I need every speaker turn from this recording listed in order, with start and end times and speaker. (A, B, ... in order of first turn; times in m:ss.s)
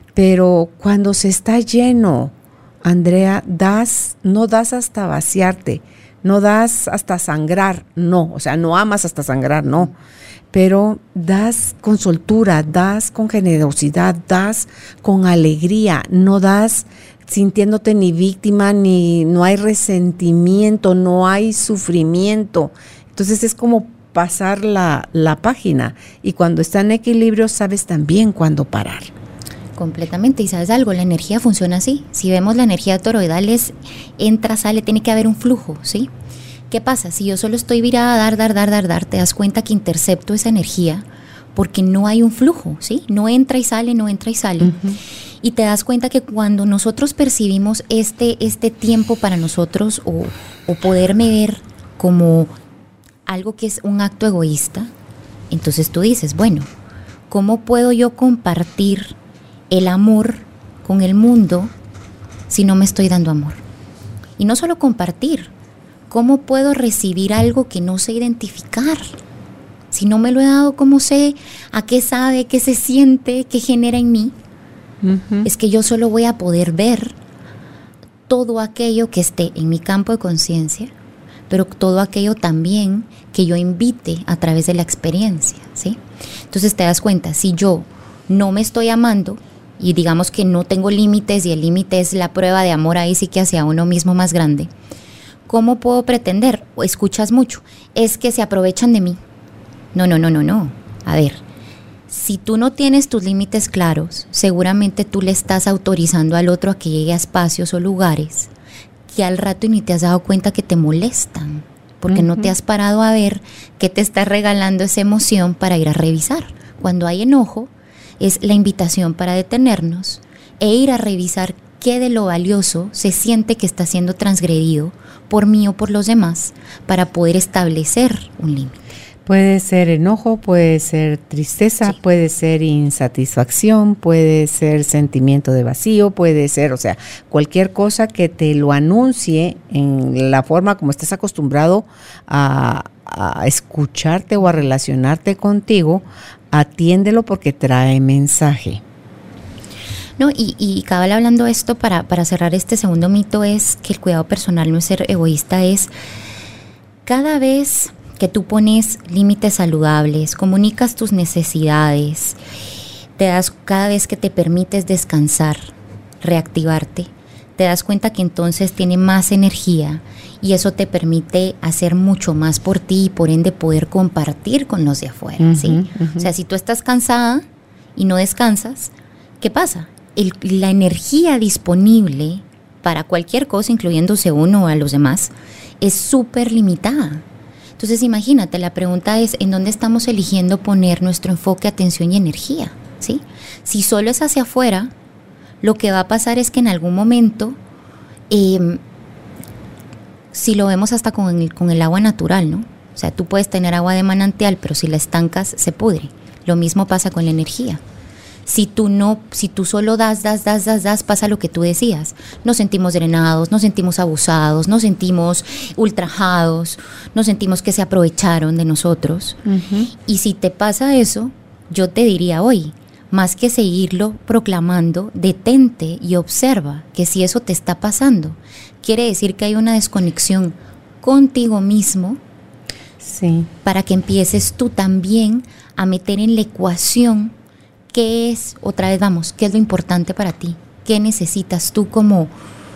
0:00.1-0:09.9 A
0:10.5-0:29.1 A
0:29.8-0:36.1 B
0:36.7-0:44.8 B
0:44.6-0:45.0 A
0:45.4-0:52.5 B
0:53.2-0:54.9 B
0:55.5-0:56.7 B
0:57.3-0:59.1 B
0:59.7-1:01.7 B
1:02.5-1:03.6 B
1:04.4-1:05.5 B
1:06.1-1:09.1 B
1:09.9-1:14.3 B
1:15.0-1:15.5 A
1:15.4-1:17.1 B
1:18.3-1:20.9 B
1:21.5-1:26.0 B
1:26.5-1:34.7 B
1:35.5-1:39.2 B
1:39.9-1:41.4 B
1:42.1-1:48.5 B
1:49.1-2:08.8 B
1:52.1-1:52.5 A
2:09.2-2:28.8 A
2:30.2-2:35.9 B
2:37.0-2:42.4 B
2:43.2-2:45.7 B
2:46.2-3:07.2 B
2:55.4-2:56.3 A
3:07.8-3:14.9 B
3:15.6-3:17.6 B
3:18.3-3:18.8 B
3:20.3-3:27.8 B
3:28.4-3:39.4 B
3:39.4-3:39.9 A
3:40.0-3:52.2 B
3:53.0-3:53.5 A
3:53.6-3:57.3 B
3:57.9-4:02.3 B